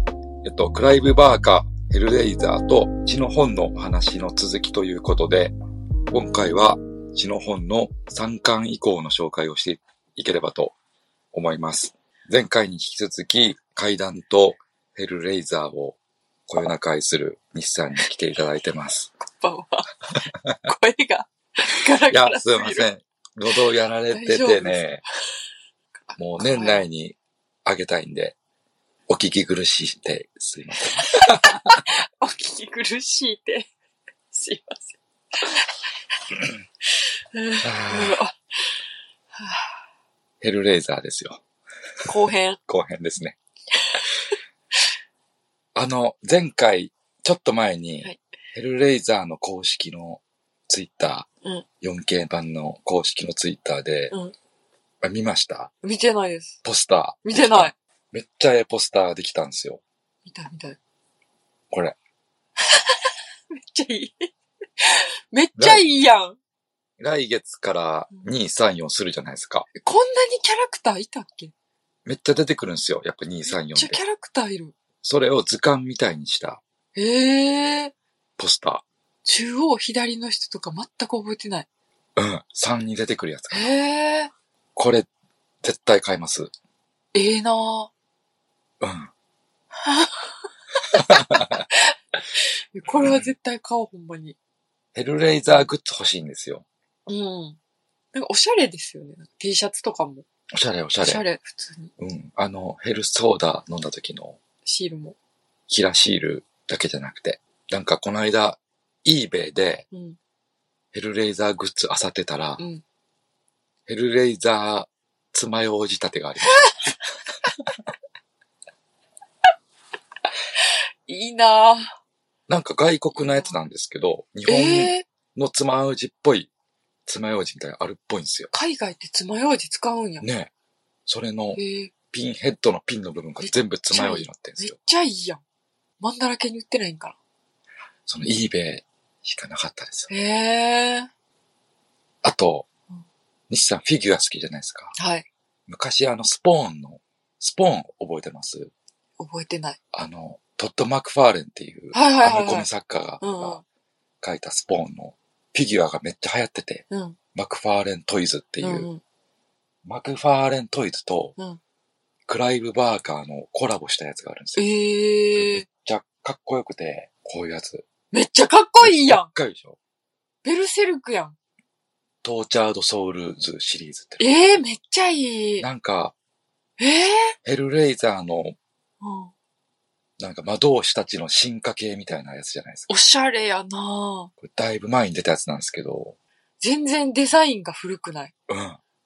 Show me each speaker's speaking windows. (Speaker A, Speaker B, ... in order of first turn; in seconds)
Speaker A: 0.4-5.5, 6.1-10.7, 11.3-19.1, 22.1-25.0, 26.2-28.4, 29.1-31.8, 37.6-38.2, 40.4-41.4, 42.6-43.4, 45.8-51.3, 51.8-54.2, 55.0-55.7, 56.6-59.8, 61.7-62.0, 65.5-65.9, 67.0-69.7, 72.0-74.0, 75.0-76.6, 78.4-78.8, 82.2-83.7, 84.8-85.1, 85.6-86.5, 88.8-89.1, 90.9-91.6, 93.0-93.3, 94.9-96.6, 100.5-101.2, 102.0-104.4, 105.7-109.9, 110.9-112.6, 113.9-116.9, 122.5-126.5, 127.0-128.5, 130.2-130.5, 131.1-131.6, 132.1-134.8, 138.1-140.1, 142.2-142.7, 143.5-144.9, 145.7-148.7, 149.9-153.6, 154.2-158.9, 159.8-161.3, 162.3-164.7, 165.3-167.9, 168.8-169.8, 172.2-174.6, 175.6-176.1, 177.4-178.6, 180.2-182.9, 184.4-186.2, 188.5-188.8
Speaker B: 19.2-19.9, 20.6-22.9, 24.1-24.9, 25.9-26.8, 31.3-33.7, 34.3-35.8, 36.9-39.8, 42.0-42.6, 43.7-44.0, 55.8-56.6, 57.2-57.7, 60.2-60.8, 62.6-66.4, 69.7-71.5, 73.4-74.7, 76.9-77.9, 79.2-81.7, 83.5-84.3, 87.1-87.9, 89.8-94.4, 97.0-97.6, 98.1-100.2, 101.0-101.9, 104.6-105.2, 109.9-110.2, 120.6-122.0, 123.1-123.6, 124.5-125.0, 128.5-130.2, 131.5-131.9, 133.4-135.4, 136.0-137.2, 140.1-141.1, 144.9-145.3, 149.2-149.8, 151.9-152.7, 153.2-153.6, 156.9-157.2, 158.6-159.0, 164.6-165.6, 168.1-169.3, 170.4-171.3, 174.2-175.7, 176.8-177.4, 179.0-179.3, 182.9-184.3, 186.6-188.3